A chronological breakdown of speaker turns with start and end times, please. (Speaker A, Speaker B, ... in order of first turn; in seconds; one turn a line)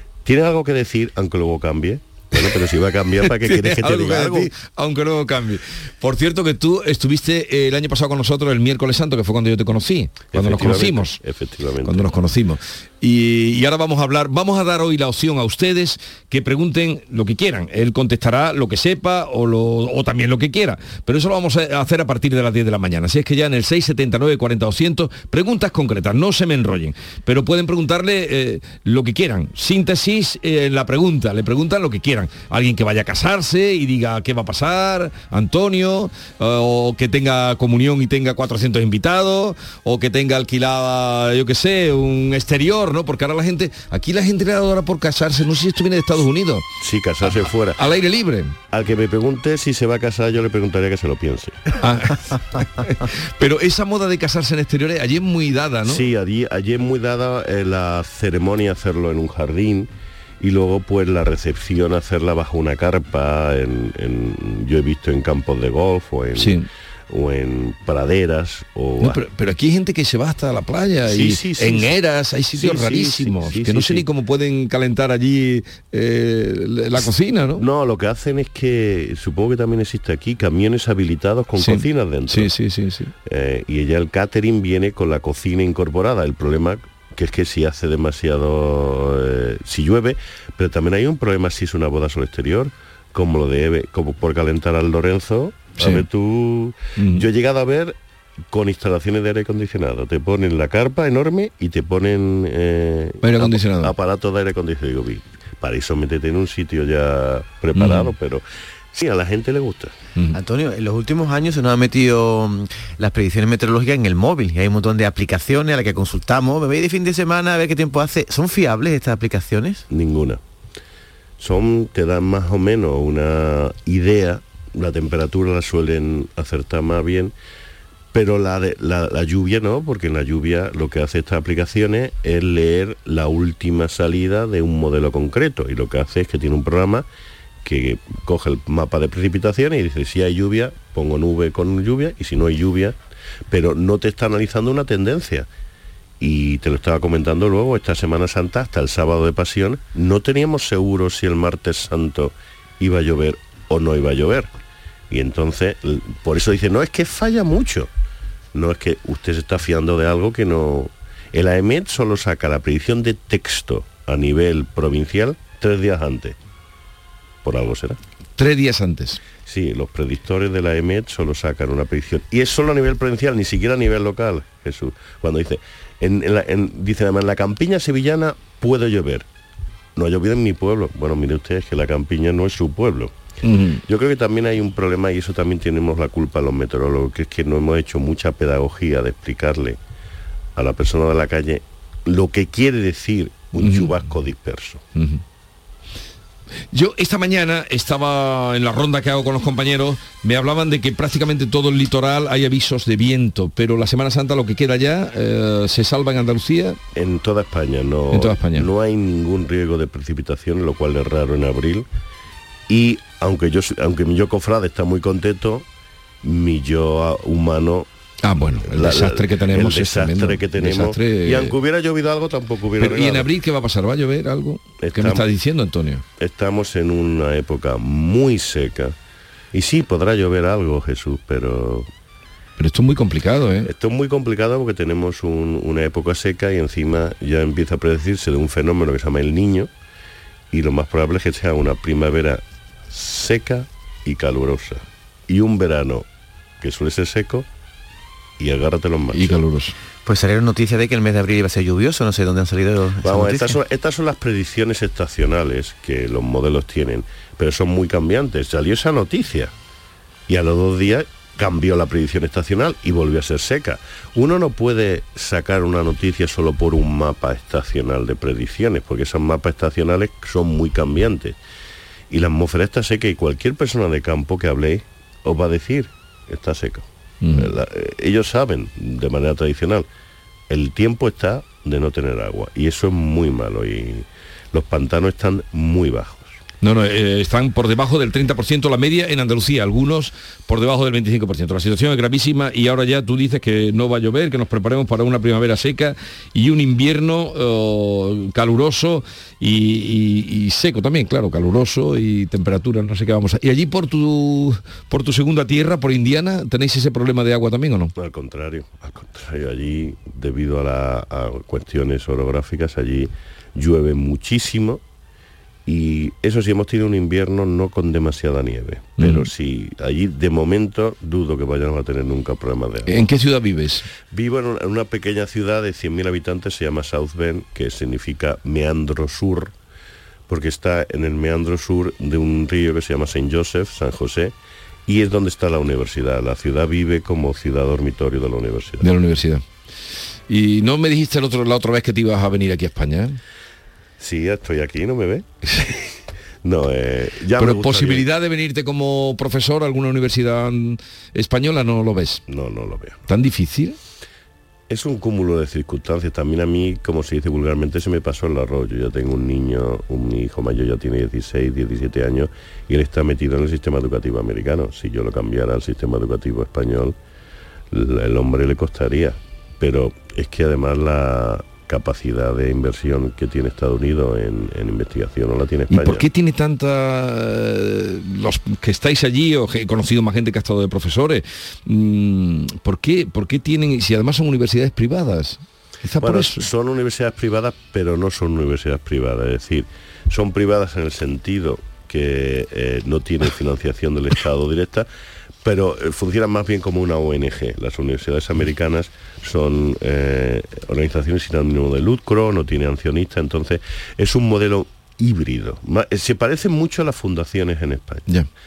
Speaker A: 0.2-4.5
Speaker B: 3.2-11.2
Speaker A: 10.3-12.1
Speaker B: 11.8-46.6
Speaker A: 46.8-47.8
Speaker B: 47.2-48.5
Speaker A: 48.7-51.6
Speaker B: 51.8-56.0
Speaker A: 55.8-59.9
Speaker A: 60.4-69.2
Speaker B: 66.3-66.6
Speaker B: 69.0-77.6
Speaker A: 71.0-71.9
Speaker A: 72.5-74.0
Speaker A: 77.6-82.5
Speaker B: 81.6-83.1
Speaker A: 83.2-98.0
Speaker B: 95.8-96.1
Speaker B: 97.0-97.2
Speaker A: 98.5-109.9
Speaker B: 103.2-103.9
Speaker B: 107.7-108.1
Speaker C: 110.3-119.8
Speaker A: 119.9-120.4
Speaker A: 121.4-127.3
Speaker A: 128.1-137.1
Speaker A: 137.6-142.9
Speaker A: 143.5-145.5
Speaker A: 146.2-154.5
Speaker A: 155.1-157.9
Speaker A: 158.5-166.3
Speaker A: 167.4-168.0
Speaker B: 168.4-169.2
Speaker A: 169.5-179.2
Speaker A: 179.9-183.1
Speaker B: 183.4-183.8
Speaker A: 183.9-189.8
Speaker A: 190.6-194.8
Speaker B: 193.6-194.0
Speaker B: 194.9-195.2
Speaker B: 196.7-206.8
Speaker A: 206.9-211.8
Speaker B: 208.1-208.7
Speaker A: 212.7-215.6
Speaker A: 216.2-217.9
Speaker B: 218.2-221.6
Speaker A: 218.7-223.3
Speaker B: 222.8-226.0
Speaker A: 224.8-225.2
Speaker A: 226.2-228.9
Speaker A: 229.5-231.9
Speaker B: 232.6-233.7
Speaker A: 233.6-239.7
Speaker A: 240.5-246.0
Speaker A: 246.6-247.5
Speaker A: 248.4-249.4
Speaker B: 249.1-249.7
Speaker C: 250.0-253.5
Speaker A: 253.0-259.5
Speaker A: 260.3-271.4
Speaker A: 272.1-279.9
Speaker B: 277.2-277.5
Speaker A: 280.5-286.3
Speaker B: 286.6-307.9
Speaker A: 308.0-314.8
Speaker A: 315.7-322.9
Speaker B: 319.0-319.3
Speaker B: 322.9-323.9
Speaker A: 324.1-329.5
Speaker A: 330.3-334.3
Speaker A: 334.9-338.9
Speaker B: 338.8-339.4
Speaker B: 340.3-343.2
Speaker A: 344.0-345.2
Speaker B: 345.4-345.7
Speaker A: 346.4-348.1
Speaker B: 347.4-352.2
Speaker A: 352.3-353.0
Speaker B: 353.1-353.8
Speaker A: 354.7-366.9
Speaker A: 367.7-376.0
Speaker B: 375.7-386.5
Speaker A: 386.0-394.9
Speaker A: 395.4-408.1